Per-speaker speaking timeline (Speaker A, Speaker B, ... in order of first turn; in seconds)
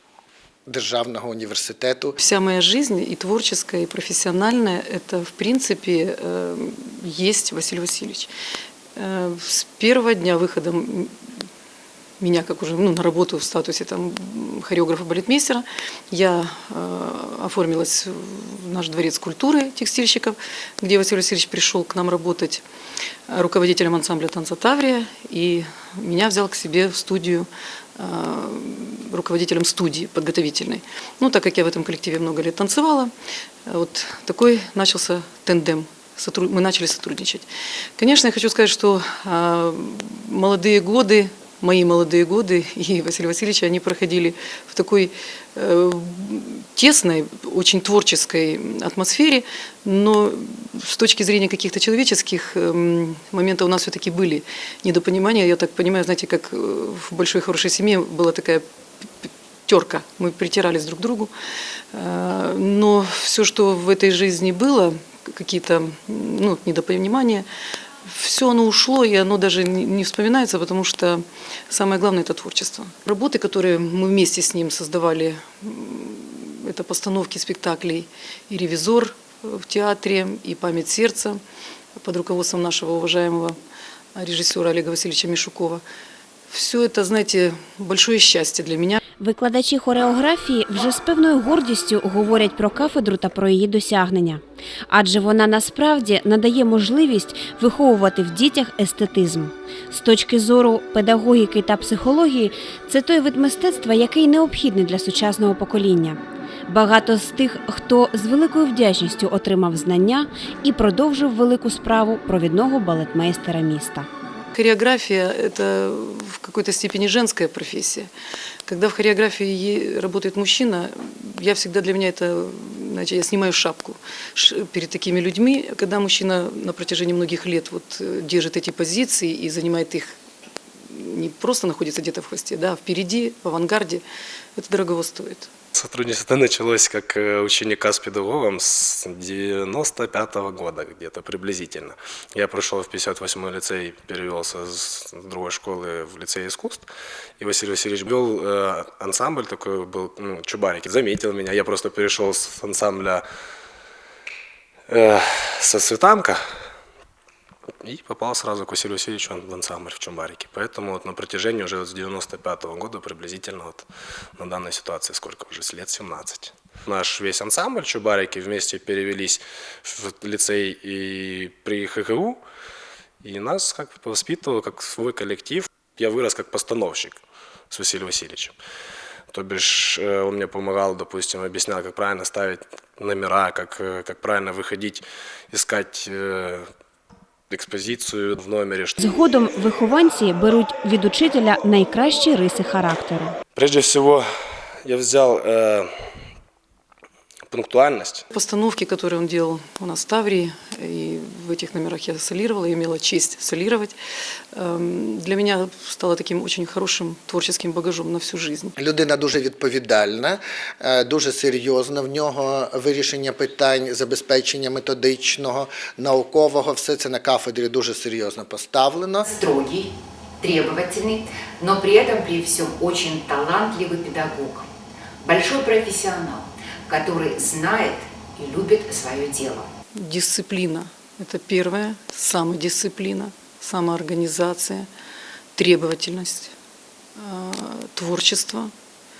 Speaker A: 0.7-2.2, 208.8-219.2
Speaker B: 2.2-8.3, 8.9-11.2, 12.2-22.6, 23.3-33.1, 33.6-37.5, 38.0-61.3, 61.9-67.5, 68.0-81.4, 82.0-83.6, 84.1-85.8, 86.5-89.0, 114.5-118.1, 118.7-130.1, 130.8-134.0, 134.6-135.5, 198.3-203.9, 204.5-208.7, 229.9-234.9, 235.6-236.5, 237.2-238.7
Speaker C: 89.2-114.1, 189.0-193.3
Speaker D: 135.7-146.9, 147.4-153.2, 154.9-156.5, 157.8-172.4, 173.2-178.6, 179.3-186.7, 187.5-189.1, 193.6-194.3, 194.8-195.9, 197.5-198.2
Speaker E: 219.2-224.7, 225.2-229.7